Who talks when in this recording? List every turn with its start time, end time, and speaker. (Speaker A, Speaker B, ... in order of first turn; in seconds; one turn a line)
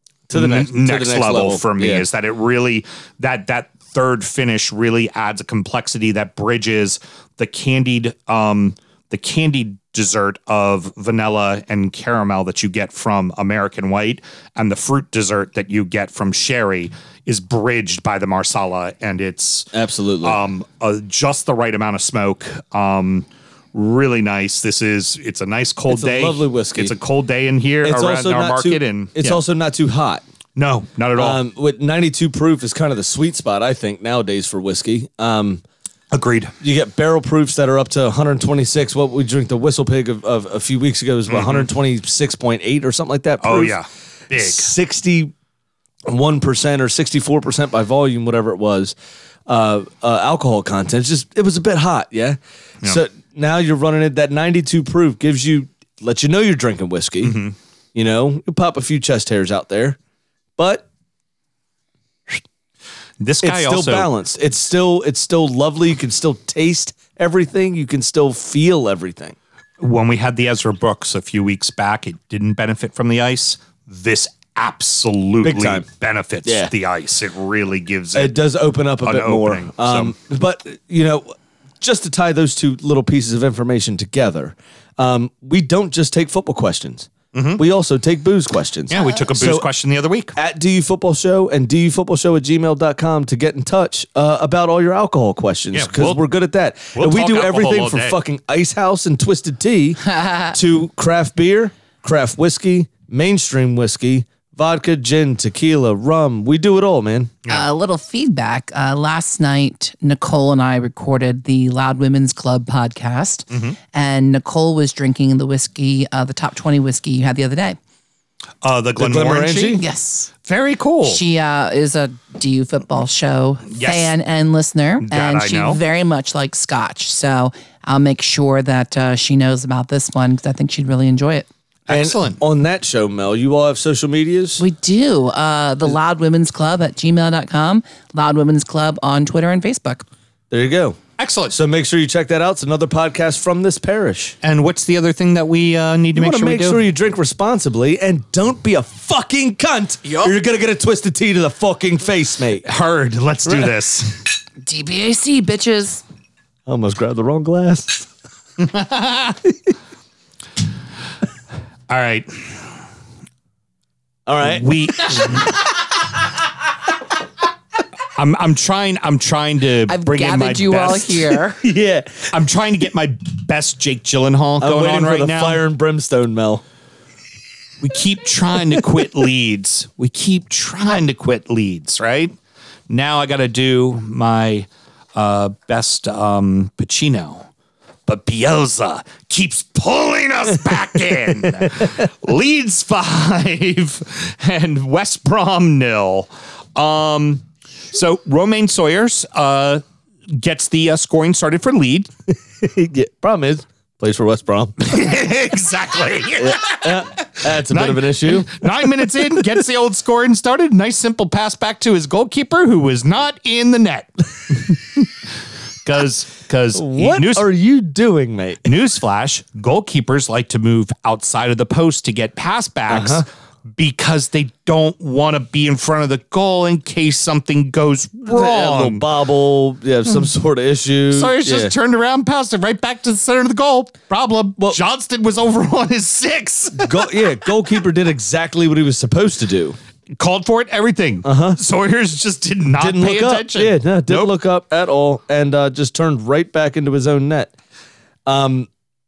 Speaker A: 0.3-2.1
Speaker B: 0.3-19.7
Speaker A: 19.7-20.4
Speaker B: 20.2-29.4
Speaker A: 25.9-26.9
Speaker A: 27.8-30.2
Speaker B: 30.6-31.4
Speaker A: 31.1-35.6
Speaker B: 36.1-36.5
Speaker A: 36.6-43.8
Speaker B: 41.3-41.6
Speaker B: 43.4-44.7
Speaker A: 44.3-45.3
Speaker A: 46.0-48.9
Speaker A: 49.5-57.4
Speaker B: 57.2-57.5
Speaker A: 57.9-60.0
Speaker A: 60.6-60.9
Speaker B: 63.2-64.1
Speaker A: 63.4-69.3
Speaker B: 69.8-78.4
Speaker A: 75.4-75.8
Speaker A: 76.4-76.7
Speaker A: 78.1-89.7
Speaker B: 79.0-80.1
Speaker B: 87.3-87.6
Speaker B: 88.9-90.3
Speaker A: 90.3-107.3
Speaker B: 95.7-96.2
Speaker B: 96.9-98.2
Speaker C: 107.5-117.8
Speaker B: 113.5-113.8
Speaker B: 118.6-119.8
Speaker A: 119.0-119.8
Speaker C: 119.8-120.3
Speaker B: 120.4-121.2
Speaker C: 121.0-131.5
Speaker B: 123.7-124.1
Speaker B: 125.0-125.8
Speaker B: 131.9-132.4
Speaker A: 131.9-134.6
Speaker C: 134.6-140.0
Speaker A: 140.5-141.0
Speaker B: 141.2-141.6
Speaker A: 141.5-144.3
Speaker B: 144.4-146.8
Speaker A: 146.1-152.7
Speaker B: 150.1-150.3
Speaker B: 152.6-154.2
Speaker A: 153.4-153.7
Speaker C: 154.6-156.0
Speaker A: 156.7-158.1
Speaker B: 158.6-159.4
Speaker B: 161.9-162.4
Speaker A: 164.3-165.4
Speaker B: 164.4-165.6
Speaker B: 168.1-171.3
Speaker C: 169.9-171.6
Speaker A: 171.6-172.3
Speaker B: 172.3-175.6
Speaker A: 174.6-176.6
Speaker B: 177.8-182.3
Speaker B: 182.9-187.5
Speaker B: 188.1-202.1
Speaker A: 202.6-204.9
Speaker B: 204.8-215.1
Speaker A: 206.4-208.7
Speaker B: 215.8-217.5
Speaker A: 216.7-218.7
Speaker B: 218.6-229.0
Speaker A: 222.9-223.2
Speaker A: 228.2-231.7
Speaker B: 231.1-237.3
Speaker A: 236.7-239.8
Speaker B: 240.2-244.3
Speaker A: 241.2-241.6
Speaker A: 242.8-247.5
Speaker A: 248.2-248.7